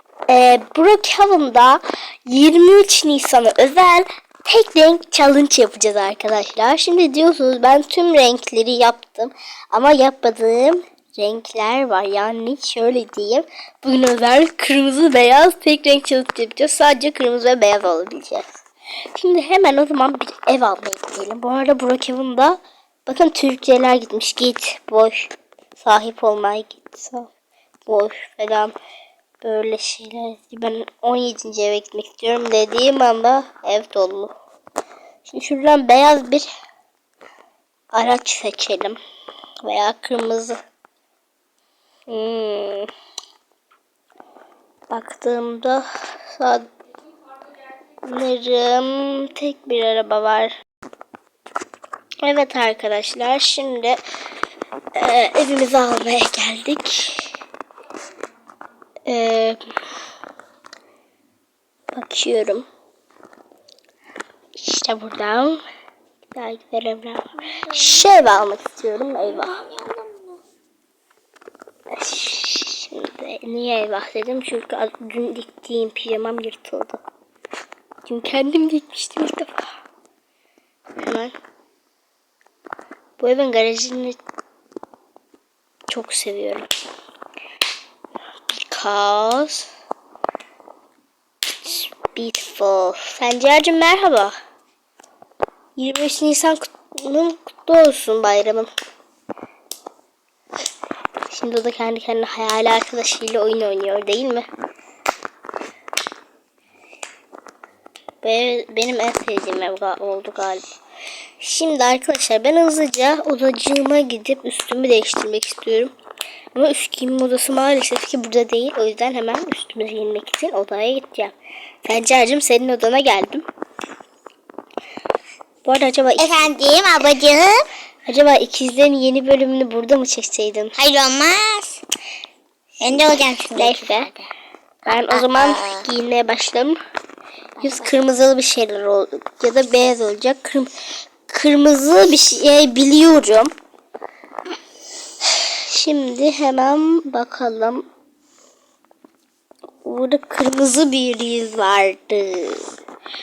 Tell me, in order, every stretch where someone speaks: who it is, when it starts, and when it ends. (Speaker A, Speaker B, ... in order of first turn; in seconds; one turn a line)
Speaker A: 0.3-18.6
Speaker A: 19.1-27.3
Speaker A: 27.9-28.7
Speaker A: 29.4-34.3
Speaker A: 35.2-36.5
Speaker A: 37.9-39.0
Speaker A: 39.6-40.6
Speaker A: 42.1-42.9
Speaker A: 44.9-46.7
Speaker A: 48.0-50.5
Speaker A: 52.2-54.0
Speaker A: 54.9-57.3
Speaker A: 59.1-59.6
Speaker A: 61.9-62.7
Speaker A: 64.5-65.6
Speaker A: 66.3-69.6
Speaker B: 67.5-68.1
Speaker B: 69.3-70.4
Speaker A: 71.9-77.0
Speaker A: 78.0-79.7
Speaker A: 81.0-81.3
Speaker A: 83.2-84.2
Speaker A: 85.9-86.7
Speaker A: 88.5-89.7
Speaker A: 91.7-94.3
Speaker A: 95.8-98.7
Speaker A: 101.3-104.5
Speaker A: 108.2-110.6
Speaker A: 111.4-115.9
Speaker A: 116.5-121.3
Speaker A: 121.8-123.4
Speaker A: 125.6-126.5
Speaker B: 126.2-127.7
Speaker A: 128.1-130.8
Speaker B: 130.8-131.8
Speaker B: 132.8-134.3
Speaker A: 133.5-134.1
Speaker A: 134.8-136.8
Speaker B: 135.1-135.8
Speaker A: 137.6-140.7
Speaker A: 141.3-143.5
Speaker A: 145.7-147.8
Speaker A: 149.8-152.7